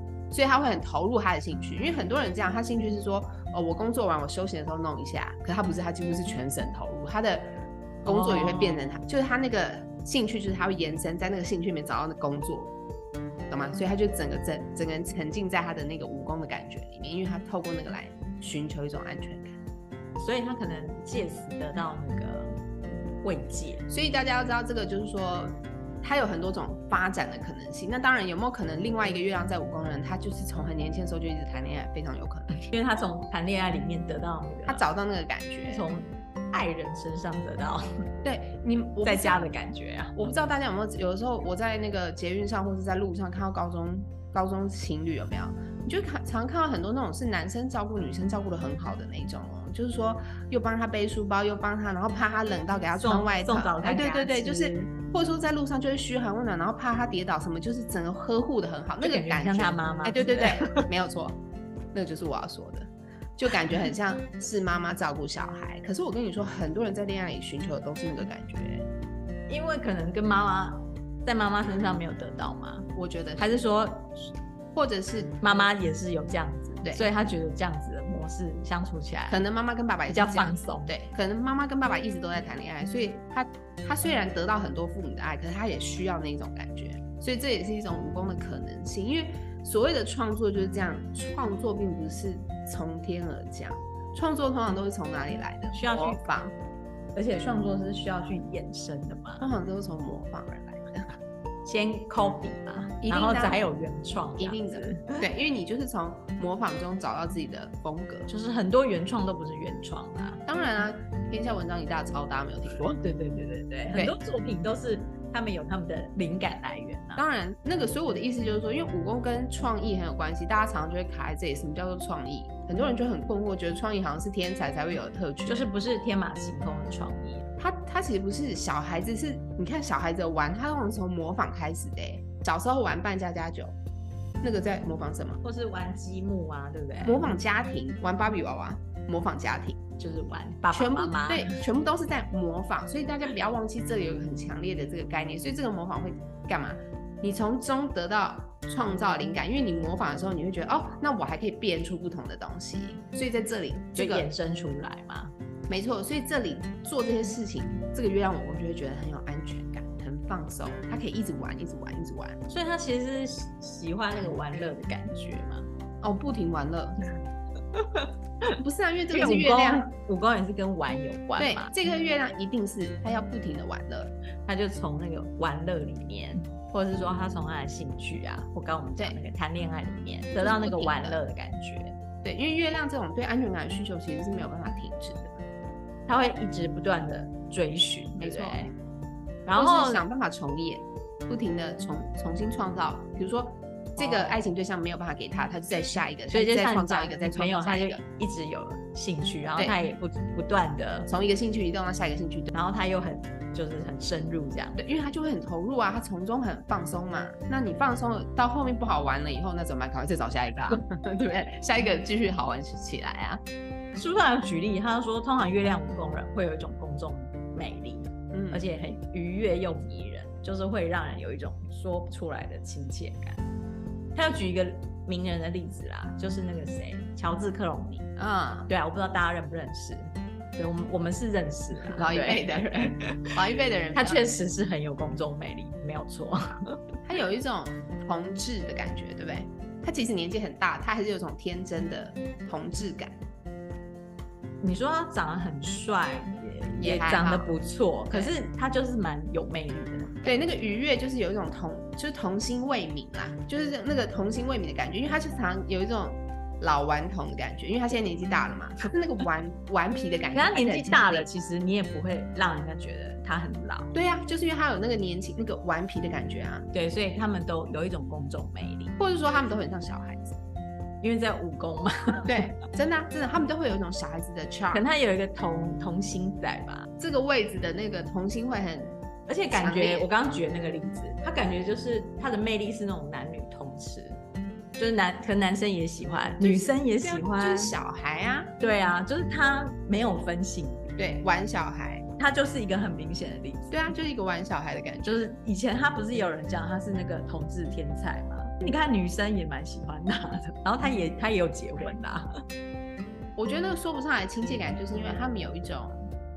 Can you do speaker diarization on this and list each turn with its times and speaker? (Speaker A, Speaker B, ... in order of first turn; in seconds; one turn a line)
Speaker A: 0.3-12.7
Speaker B: 8.1-9.0
Speaker A: 13.5-19.6
Speaker B: 20.2-23.9
Speaker A: 23.9-32.6
Speaker B: 32.6-34.8
Speaker A: 34.7-35.8
Speaker B: 35.7-37.9
Speaker A: 38.2-39.5
Speaker B: 39.0-40.3
Speaker A: 40.2-61.4
Speaker B: 53.0-54.9
Speaker B: 59.0-60.9
Speaker A: 61.9-68.9
Speaker B: 69.5-74.3
Speaker A: 73.0-73.6
Speaker A: 74.8-75.4
Speaker B: 75.4-79.4
Speaker A: 76.8-77.1
Speaker A: 79.3-96.5
Speaker B: 80.1-80.9
Speaker B: 95.7-96.2
Speaker B: 97.2-99.5
Speaker A: 99.4-101.0
Speaker B: 101.7-105.2
Speaker A: 103.0-103.6
Speaker A: 104.4-108.3
Speaker B: 108.3-110.4
Speaker A: 110.5-112.9
Speaker B: 112.7-117.2
Speaker A: 117.2-125.7
Speaker B: 125.5-127.5
Speaker A: 127.6-133.8
Speaker A: 134.4-135.4
Speaker B: 135.4-137.3
Speaker A: 137.0-139.8
Speaker B: 140.0-141.6
Speaker A: 140.7-154.3
Speaker B: 154.0-155.3
Speaker A: 155.7-162.4
Speaker B: 162.5-165.7
Speaker A: 166.0-167.1
Speaker B: 167.8-168.4
Speaker A: 168.6-169.9
Speaker B: 169.1-171.7
Speaker A: 171.4-174.1
Speaker B: 174.5-182.0
Speaker A: 180.4-181.2
Speaker A: 182.2-185.4
Speaker B: 186.1-188.7
Speaker A: 188.2-188.7
Speaker B: 189.5-190.1
Speaker A: 189.5-198.0
Speaker B: 194.0-194.4
Speaker B: 196.3-201.1
Speaker A: 201.1-202.5
Speaker B: 202.5-204.8
Speaker A: 204.8-213.4
Speaker B: 213.9-223.4
Speaker A: 218.3-218.7
Speaker B: 224.2-228.1
Speaker A: 228.2-228.7
Speaker B: 228.7-233.2
Speaker A: 231.9-234.3
Speaker B: 233.9-236.8
Speaker A: 237.1-243.2
Speaker B: 244.6-250.3
Speaker A: 246.8-247.5
Speaker A: 248.1-248.3
Speaker A: 250.2-261.3
Speaker B: 260.3-263.9
Speaker A: 263.9-266.7
Speaker B: 266.7-269.0
Speaker A: 269.0-270.4
Speaker B: 271.0-272.5
Speaker A: 272.3-274.8
Speaker B: 274.7-276.9
Speaker A: 277.0-279.0
Speaker B: 279.3-284.2
Speaker A: 279.5-280.1
Speaker B: 284.8-287.8
Speaker A: 286.4-288.5
Speaker B: 288.6-291.0
Speaker A: 291.0-292.1
Speaker B: 292.2-293.9
Speaker A: 293.7-295.3
Speaker B: 295.0-302.3
Speaker A: 303.4-306.0